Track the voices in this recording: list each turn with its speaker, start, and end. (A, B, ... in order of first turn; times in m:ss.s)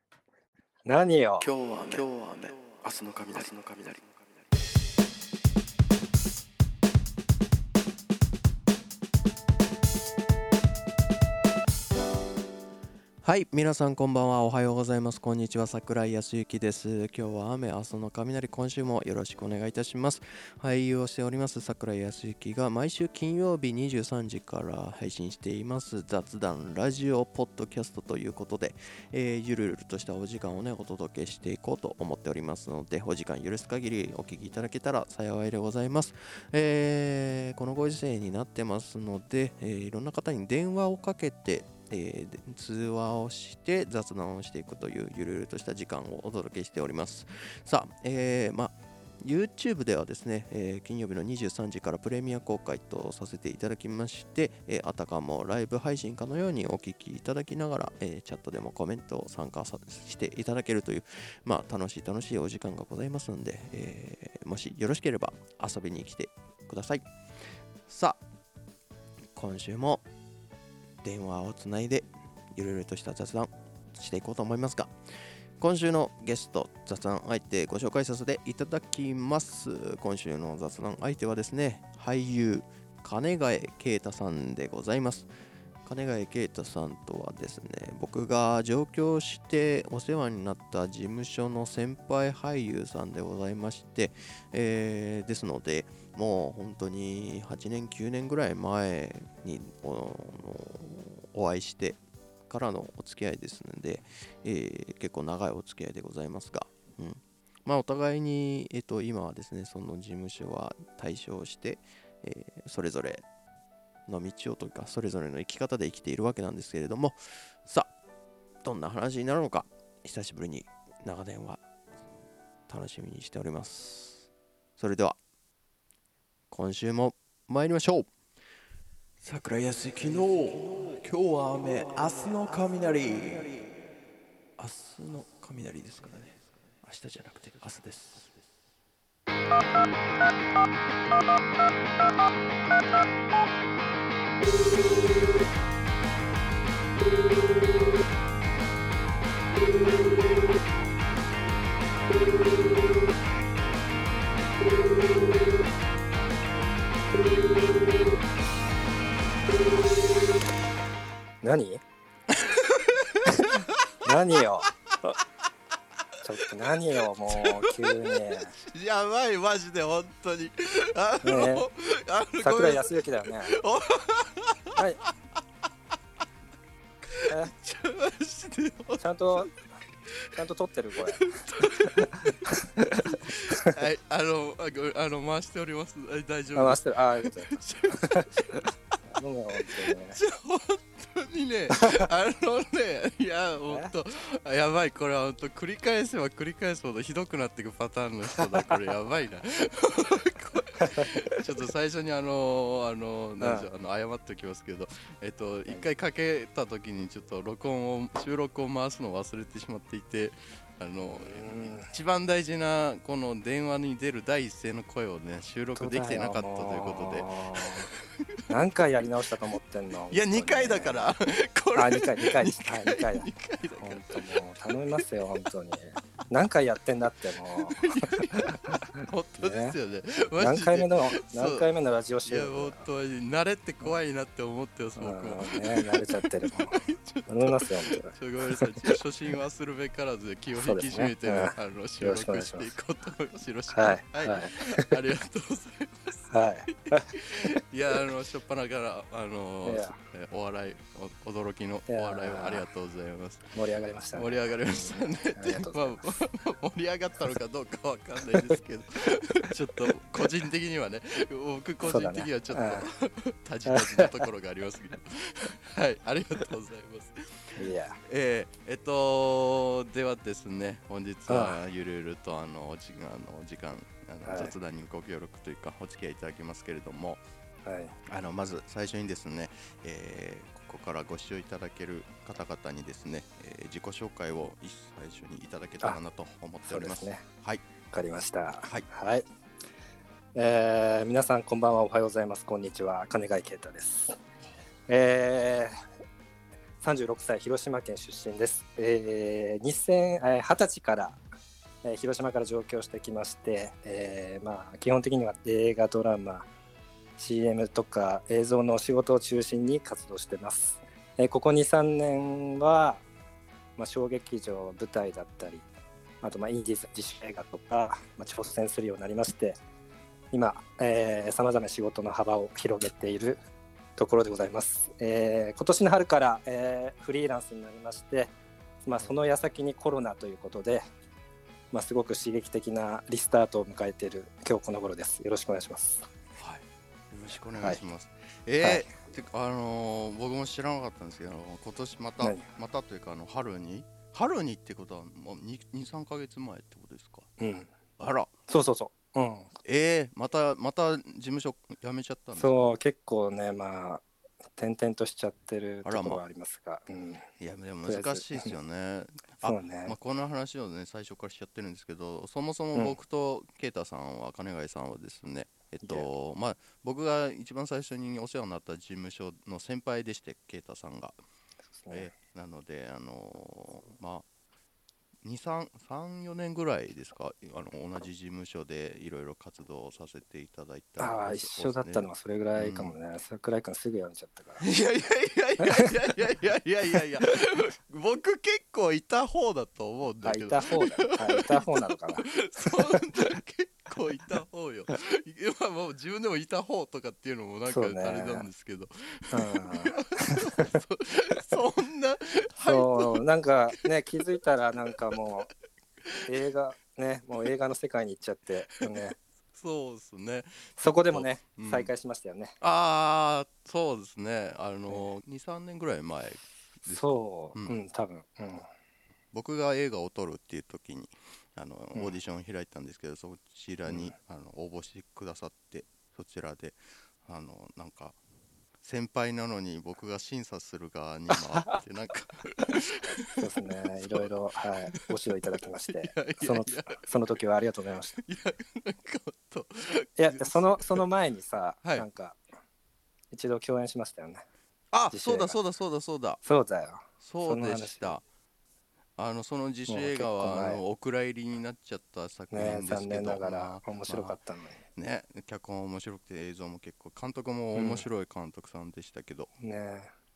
0:00.9-0:01.5 A
0:01.4-0:04.4 B
0:13.2-1:07.1 C
1:07.9-1:08.2 C
1:09.3-1:10.0 C
1:11.0-1:14.9 C
1:15.6-1:25.3 C
1:25.8-1:53.2 C
1:54.1-1:57.9 C
1:58.6-2:01.6 C
2:02.7-2:05.2 C
2:06.5-2:08.1 C
2:09.2-2:13.7 C
2:14.6-2:18.4 C
2:41.4-2:41.8 A
2:42.3-2:43.9 C
2:43.3-2:44.7 A
2:46.2-2:48.5 A
2:46.7-2:55.1 C
2:51.2-2:51.7 A
2:52.4-2:53.6 A
2:57.0-2:59.5 C
2:59.0-2:59.5 A
3:00.1-3:00.4 C
3:00.3-3:03.8 A
3:01.1-3:08.4 C
3:06.6-3:10.2 A
3:09.7-3:38.3 C
3:11.8-3:12.0 A
3:20.8-3:21.1 A
3:23.4-3:23.7 A
3:31.0-3:31.9 A
3:35.8-3:38.0 A
3:38.5-3:41.2 A
3:40.1-3:45.3 C
3:41.8-3:49.8 A
3:47.6-3:51.7 C
3:50.4-3:52.9 A
3:52.3-4:13.5 C
3:55.0-3:59.0 A
4:00.6-4:02.7 A
4:03.7-4:04.9 A
4:06.3-4:07.1 A
4:09.6-4:10.0 A
4:11.9-4:12.7 A
4:13.5-4:16.1 A
4:14.2-4:37.2 C
4:21.8-4:22.9 A
4:23.7-4:24.2 A
4:27.6-4:28.0 A
4:31.3-4:31.6 A
4:34.2-4:34.5 A
4:37.6-4:38.0 A
4:38.1-4:47.6 C
4:46.6-4:47.2 A
4:47.9-4:49.2 A
4:50.3-4:54.2 A
4:54.9-4:55.8 A
4:56.8-5:01.2 A
5:01.8-5:06.5 A
5:07.2-5:13.0 A
5:13.8-5:15.7 A
5:16.2-5:19.6 A
5:20.3-5:23.4 A
5:24.0-5:28.3 A
5:28.8-5:30.9 A
5:31.7-5:36.1 A
5:36.4-5:47.3 C
5:38.6-5:38.9 A
5:42.2-5:42.5 A
5:47.4-5:47.7 A
5:48.0-5:48.3 C
5:48.5-5:49.5 A
5:49.6-5:52.8 C
5:52.3-5:54.0 A
5:54.6-5:57.2 A
5:55.8-5:56.2 C
5:57.4-6:11.2 C
5:57.8-5:58.5 A
5:59.4-6:00.0 A
6:05.8-6:06.1 A
6:11.7-6:12.1 A
6:11.9-6:14.3 C
6:15.2-6:22.9 C
6:21.0-6:24.6 A
6:24.6-6:43.7 C
6:25.6-6:25.9 A
6:30.2-6:33.1 A
6:37.7-6:38.5 A
6:39.3-6:40.7 A
6:42.6-6:45.5 A
6:46.3-6:49.2 A
6:48.8-6:51.9 C
6:50.8-6:52.6 A
6:52.6-6:57.7 C
6:56.8-6:58.7 A
6:59.3-7:08.2 C
7:03.9-7:04.1 A
7:08.8-7:13.4 C
7:11.3-7:11.8 A
7:12.8-7:18.2 A
7:14.0-7:14.3 C
7:15.6-7:17.1 C
7:18.1-7:21.0 C
7:20.2-7:22.4 A
7:23.3-7:24.4 A
7:24.9-7:26.4 C
7:25.1-7:25.6 A
7:26.4-7:28.2 A
7:27.2-7:28.2 C
7:29.2-7:34.4 C
7:29.9-7:30.8 A
7:32.5-7:34.8 A
7:34.9-7:39.5 C
7:37.7-7:38.1 A
7:39.6-7:40.1 A